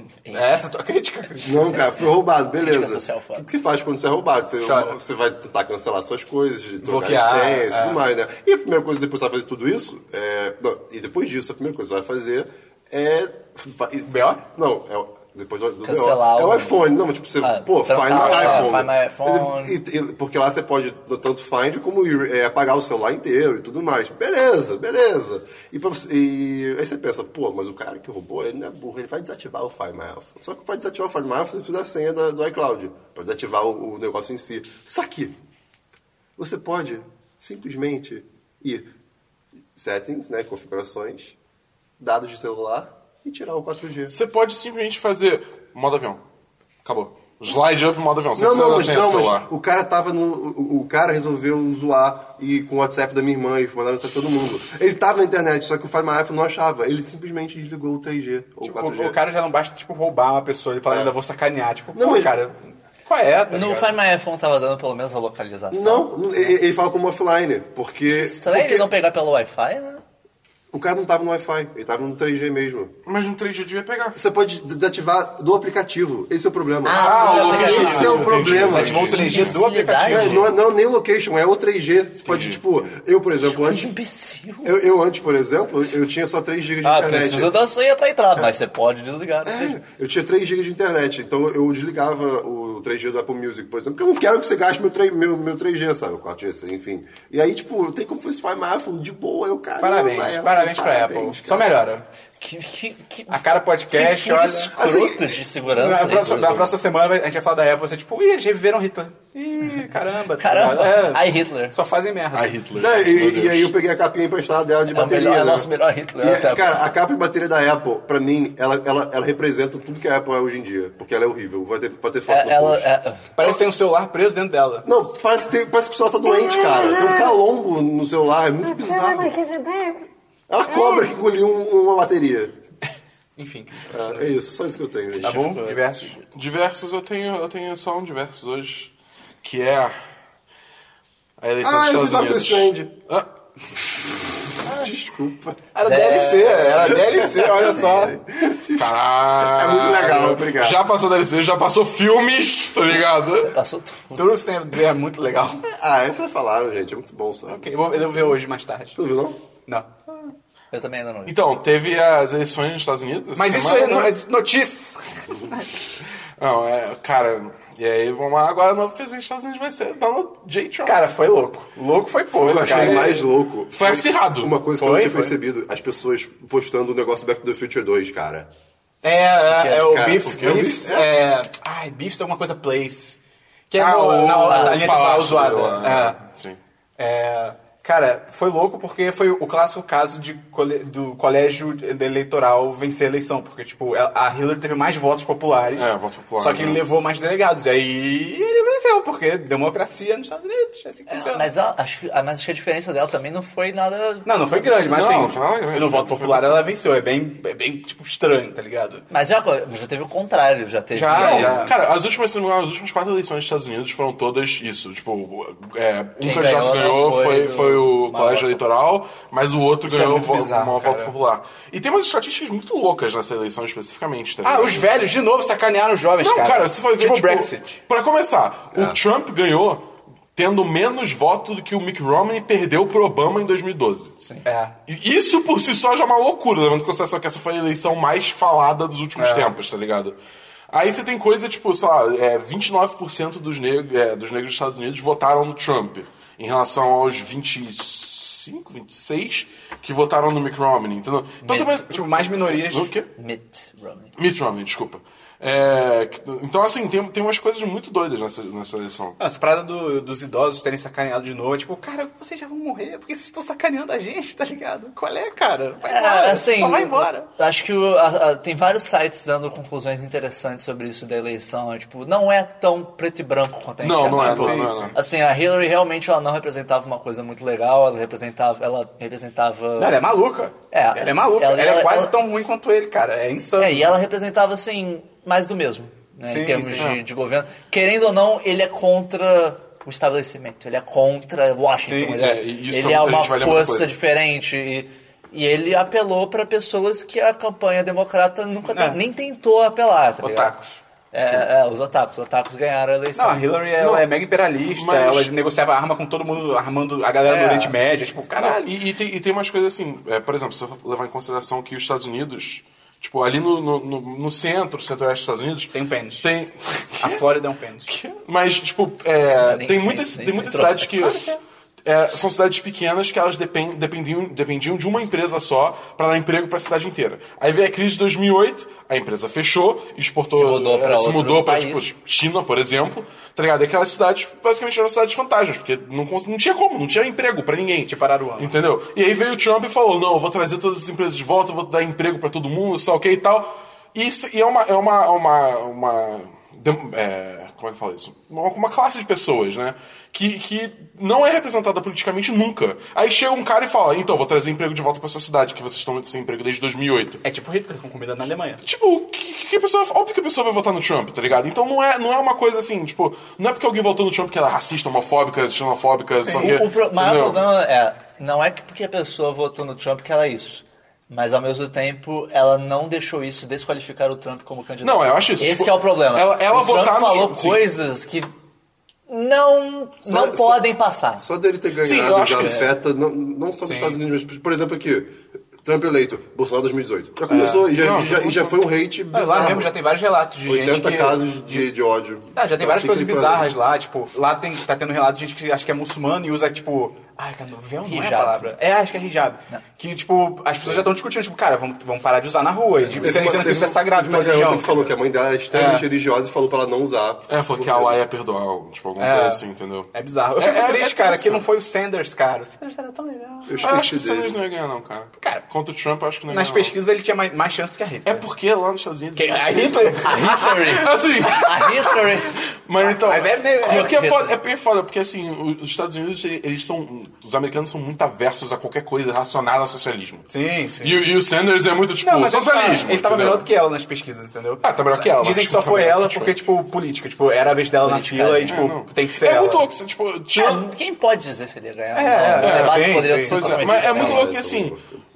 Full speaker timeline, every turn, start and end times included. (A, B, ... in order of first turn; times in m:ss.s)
0:00.3-0:01.9 A
0:01.4-0:35.3 B
0:02.6-0:03.4 C
0:04.6-0:04.9 A
0:06.8-0:08.0 A
0:14.1-0:14.4 A
0:15.8-0:16.8 C
0:17.4-0:19.8 C
0:18.1-0:18.7 D
0:36.4-0:38.9 B
0:39.7-0:41.4 B
0:42.0-0:44.1 B
0:44.1-0:46.2 D
0:46.8-0:49.5 D
0:48.4-0:59.2 B
0:58.6-1:03.9 A
1:00.9-1:01.1 B
1:01.9-1:02.3 B
1:03.5-1:06.5 C
1:05.7-1:08.9 B
1:08.1-1:10.0 C
1:10.7-1:12.9 B
1:13.0-1:14.2 D
1:14.1-1:19.3 B
1:16.8-1:18.4 C
1:16.9-1:19.6 D
1:17.2-1:20.5 A
1:19.1-1:20.4 C
1:20.0-1:23.9 B
1:22.2-1:22.8 D
1:23.4-1:24.7 C
1:24.6-1:27.5 B
1:26.8-1:29.8 C
1:29.4-1:41.8 B
1:39.8-1:42.1 A
1:42.4-1:46.7 C
1:43.3-1:44.7 A
1:44.8-1:45.4 B
1:45.7-1:52.6 A
1:50.4-1:51.7 C
1:52.3-1:53.7 D
1:52.7-1:55.7 B
1:54.9-1:56.9 C
1:56.2-2:02.9 B
2:02.3-2:03.3 C
2:03.4-2:04.8 A
2:04.8-2:09.5 B
2:10.5-2:12.5 B
2:13.4-2:14.3 A
2:13.9-2:15.5 B
2:15.2-2:16.2 A
2:15.2-2:16.2 C
2:16.3-2:18.9 D
2:19.4-2:19.9 D
2:21.4-2:23.3 D
2:21.6-2:22.9 B
2:24.6-2:25.6 B
2:25.7-2:28.2 A
2:25.8-2:28.1 C
2:26.8-2:30.8 B
2:28.7-2:33.5 D
2:33.4-2:34.2 C
2:34.1-2:35.6 A
2:35.7-2:38.4 B
2:37.5-2:39.0 A
2:38.9-2:39.4 B
2:39.6-2:39.9 A
2:40.7-2:41.3 C
2:41.3-2:44.2 D
2:43.4-2:45.7 A
2:46.4-2:51.0 D
2:50.8-2:53.2 A
2:52.3-2:54.6 D
2:52.4-2:58.5 B
2:54.8-2:55.3 A
2:59.0-3:03.2 A
2:59.5-2:59.9 C
2:59.6-3:01.1 B
3:00.2-3:00.7 D
3:03.7-3:06.2 A
3:03.8-3:06.6 D
3:04.4-3:04.9 C
3:07.0-3:21.5 A
3:15.7-3:16.8 D
3:21.1-3:25.0 C
3:24.2-3:29.0 A
3:24.9-3:26.7 D
3:29.1-3:31.7 C
3:30.9-3:31.7 A
3:31.1-3:44.9 D
3:36.2-3:38.6 C
3:39.8-3:41.1 A
3:44.4-3:47.8 A
3:46.2-3:54.1 D
3:54.2-3:54.4 C
3:54.4-3:54.7 A
3:54.9-4:00.2 D
3:59.2-3:59.6 A
4:00.7-4:13.1 D
4:11.4-4:11.8 C
4:11.5-4:12.9 A
4:13.1-4:14.1 C
4:14.2-4:19.2 D
4:19.2-4:27.3 A
4:25.8-4:40.0 C
4:33.8-4:35.0 D
4:34.1-4:35.0 A
4:39.8-4:43.9 A
4:40.7-4:42.1 C
4:43.6-5:00.5 C
4:46.2-4:47.0 A
4:51.8-4:52.3 A
4:52.2-4:53.9 D
4:58.7-4:59.0 A
5:00.2-5:00.8 A
5:01.1-5:03.5 C
5:03.2-5:08.8 A
5:03.8-5:04.1 D
5:04.7-5:05.3 D
5:07.2-5:07.8 C
5:08.4-5:17.2 D
5:15.7-5:16.3 A
5:17.0-5:17.9 A
5:17.9-5:21.3 D
5:19.2-5:21.1 C
5:21.0-5:21.4 A
5:21.8-5:57.2 D
5:30.3-5:31.9 C
5:37.8-5:38.5 A
5:57.2-5:58.6 A
5:58.6-6:07.4 D
6:06.2-6:06.6 A
6:06.4-6:18.3 C
6:14.8-6:17.6 D
6:19.1-6:21.2 C
6:20.0-6:20.6 B
6:21.2-6:29.7 B
6:21.8-6:22.7 D
6:23.6-6:24.0 A
6:27.3-6:27.7 A
6:27.7-6:28.6 D
6:29.1-6:31.7 A
6:30.4-6:33.5 B
6:32.3-6:44.9 A
6:37.8-6:38.5 C
6:40.6-6:40.9 B
6:42.9-6:48.0 B
6:45.5-6:45.8 A
6:47.3-6:51.4 D
6:49.0-6:53.7 A
6:53.5-6:54.4 B
6:53.6-6:56.7 D
6:56.3-6:58.3 A
6:58.0-7:00.2 D
6:59.2-7:02.0 A
7:00.0-7:02.4 C
7:00.8-7:02.0 D
7:02.6-7:10.3 D
7:02.8-7:03.9 A
7:03.6-7:04.4 C
7:10.3-7:11.1 A
7:10.8-7:13.5 D
7:12.0-7:19.6 A
7:14.6-7:16.4 D
7:17.8-7:18.7 C
7:18.4-7:20.7 D
7:20.3-7:24.3 C
7:21.9-7:23.4 A
7:22.4-7:24.8 D
7:23.5-7:25.0 B